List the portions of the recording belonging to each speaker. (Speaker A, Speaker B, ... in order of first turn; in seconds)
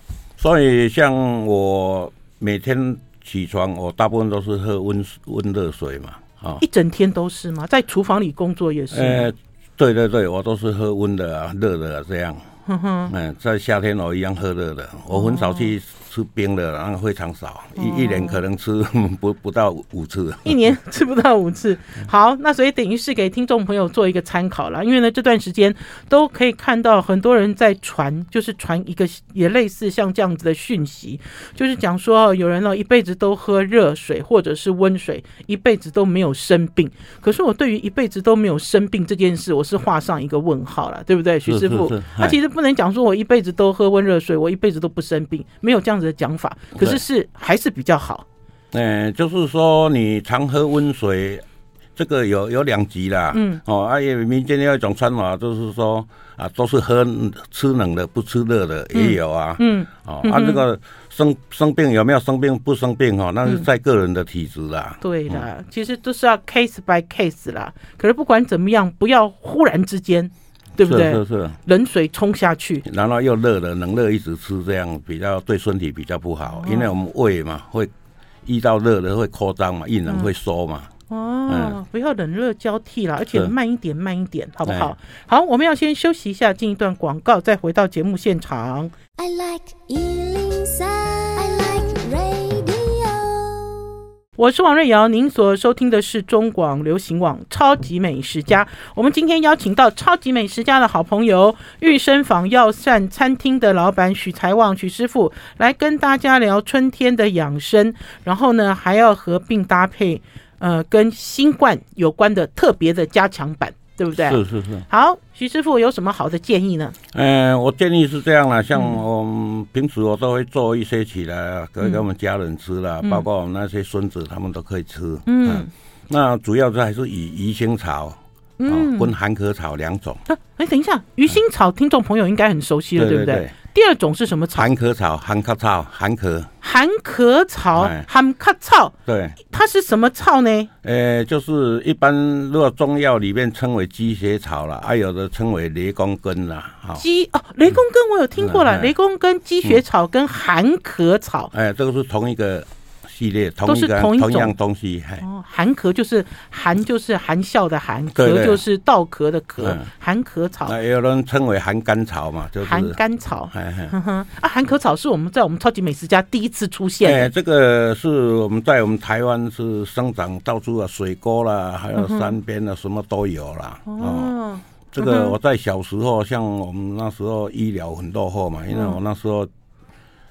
Speaker A: 0.4-6.6, 8.9-12.4, 13.1-20.6, 41.5-42.4, 46.8-47.0, 48.7-51.4, 52.0-65.5, 70.8-71.6, 72.8-77.9, 78.4-80.9, 81.5-81.8, 84.7-84.9, 114.2-114.9, 117.1-130.2, 132.9-133.5, 134.5-136.5, 137.8-138.1, 139.1-139.4, 140.8-147.0, 148.4-148.9, 151.5-155.2, 158.1-158.6, 159.6-159.9, 160.7-163.0, 163.5-163.9, 167.0-174.3, 174.9-179.5
Speaker B: 6.6-9.3, 12.7-13.1, 15.1-15.7, 17.8-18.4, 20.4-48.2, 53.3-53.6, 58.9-60.6, 65.0-72.8, 76.6-76.9, 81.1-88.9, 94.4-117.0, 125.3-125.7, 128.6-129.1, 130.3-134.7, 136.6-140.7, 147.0-151.5, 153.6-154.5, 155.2-160.7, 162.6-167.3, 171.9-172.3, 173.9-175.3, 178.7-179.0
Speaker C: 89.2-93.9